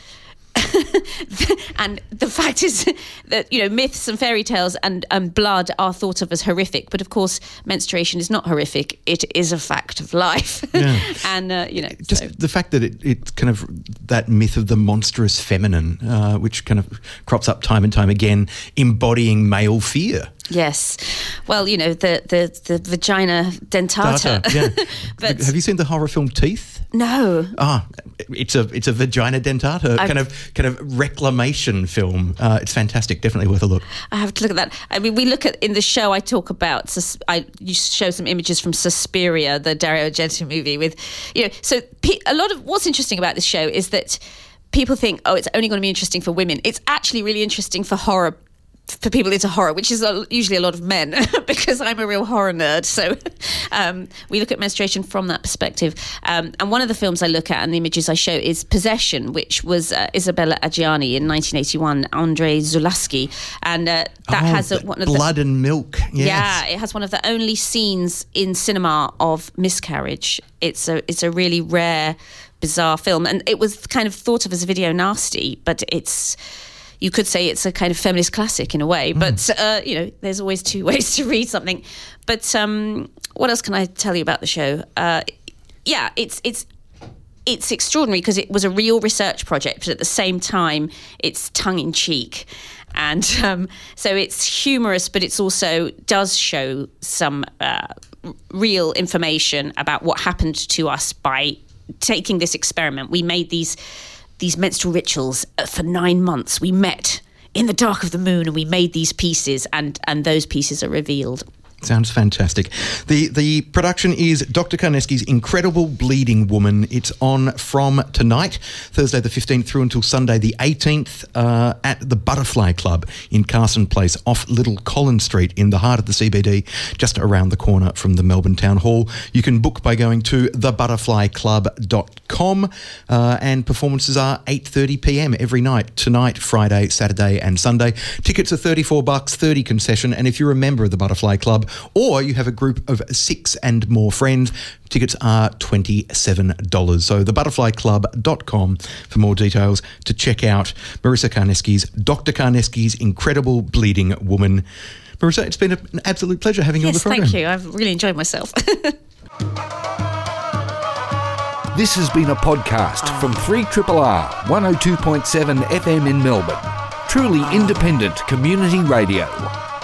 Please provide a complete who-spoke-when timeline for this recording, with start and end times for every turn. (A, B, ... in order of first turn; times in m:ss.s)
0:00.6-0:12.3 A
0:10.7-0:11.1 B
0:12.0-0:20.3 B
0:20.5-0:25.5 A
0:24.0-0:26.9 B
0:26.9-0:27.6 A
0:27.5-0:33.8 B
0:34.1-0:48.4 A
0:48.9-1:05.2 A
1:04.3-1:06.6 B
1:06.1-1:16.4 A
1:17.0-1:25.3 A
1:25.8-1:26.6 A
1:27.4-1:37.9 A
1:38.5-1:43.8 A
1:44.4-1:51.4 A
1:51.8-2:34.6 B
2:35.2-2:37.4 B
2:36.8-2:39.0 A
2:41.7-2:49.5 C